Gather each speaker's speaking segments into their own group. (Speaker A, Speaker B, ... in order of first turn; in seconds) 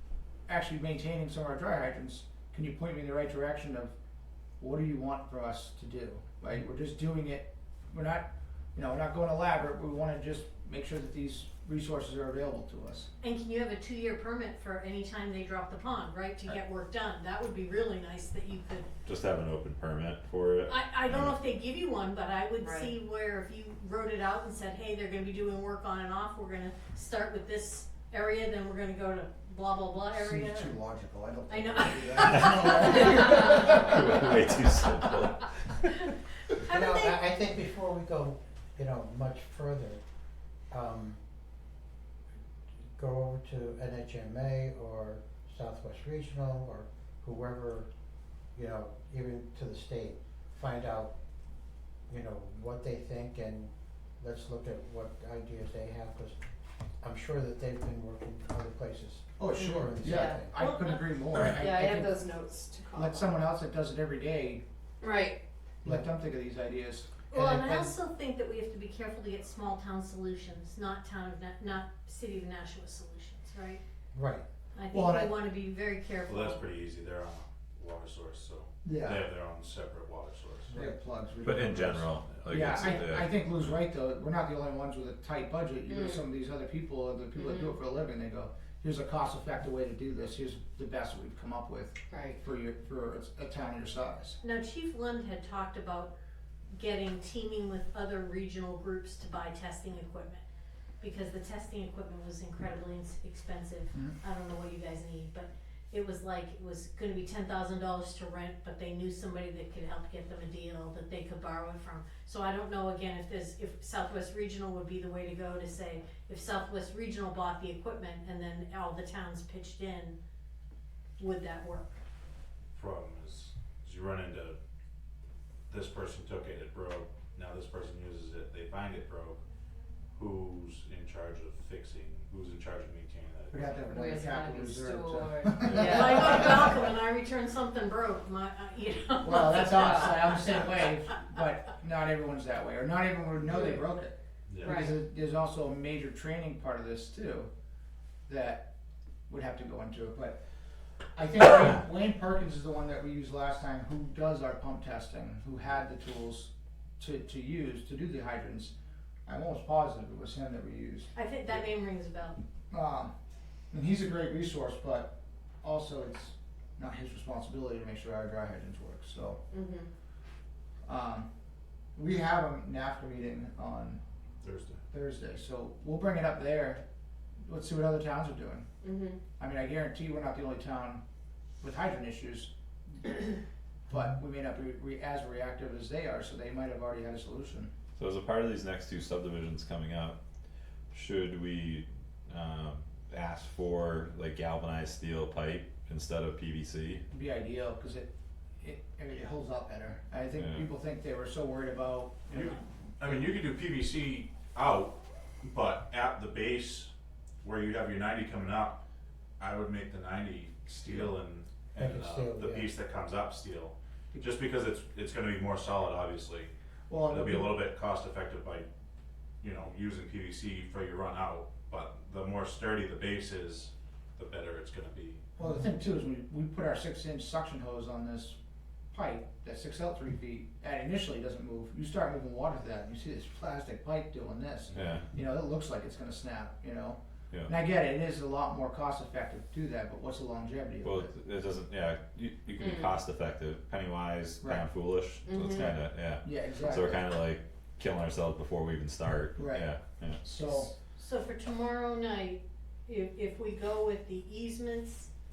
Speaker A: 0.5-4.0, 4.6-13.1, 30.1-34.4, 59.4-62.2, 62.9-64.6, 65.8-67.9, 74.9-75.3, 78.8-79.3, 80.7-94.4, 133.5-136.6, 139.2-147.5, 148.3-148.7, 149.3-150.4, 151.2-158.8, 159.2-161.1, 162.7-163.1, 163.7-169.4, 170.9-171.3, 172.0-174.0, 174.9-176.8, 177.4-178.7, 179.4-181.0, 181.6-183.3, 183.9-187.7, 197.1-198.1, 198.6-203.3, 210.8-211.2, 216.9-217.6, 225.4-228.4, 228.9-241.1, 244.4-244.7, 245.4-245.7, 246.2-247.1, 249.3-249.7, 250.2-250.7
Speaker B: 13.2-18.9, 20.7-30.8, 31.5-34.0, 36.6-37.3, 60.5-61.1, 67.3-73.8, 74.7-76.7, 94.4-96.1, 96.7-100.4, 101.0-120.2, 121.2-122.0, 135.7-140.7, 161.2-162.4, 250.9-255.1
Speaker C: 19.0-21.4, 33.5-35.5, 81.4-83.8, 135.6-136.0, 188.0-190.2, 190.9-197.0, 200.3-200.7, 234.7-235.1, 240.8-250.2
Speaker D: 22.6-22.9, 59.5-60.4, 61.5-63.4, 65.0-65.4, 85.9-86.2, 92.1-92.4, 133.9-136.7, 139.7-140.5, 143.5-143.9, 144.6-145.0, 169.5-169.9, 178.8-179.2, 242.6-243.0, 245.2-245.8
Speaker E: 36.6-40.0, 40.7-41.2, 43.0-47.9, 48.5-51.1, 52.1-56.4, 57.0-60.5, 74.1-74.4, 80.7-81.0, 211.8-212.7
Speaker F: 76.2-80.8, 82.2-83.1, 122.7-124.6, 125.7-129.4, 130.2-133.9, 144.5-144.9, 174.4-174.8, 202.3-206.9, 207.4-208.8, 209.4-216.5, 217.1-218.7, 219.4-225.3, 234.7-235.1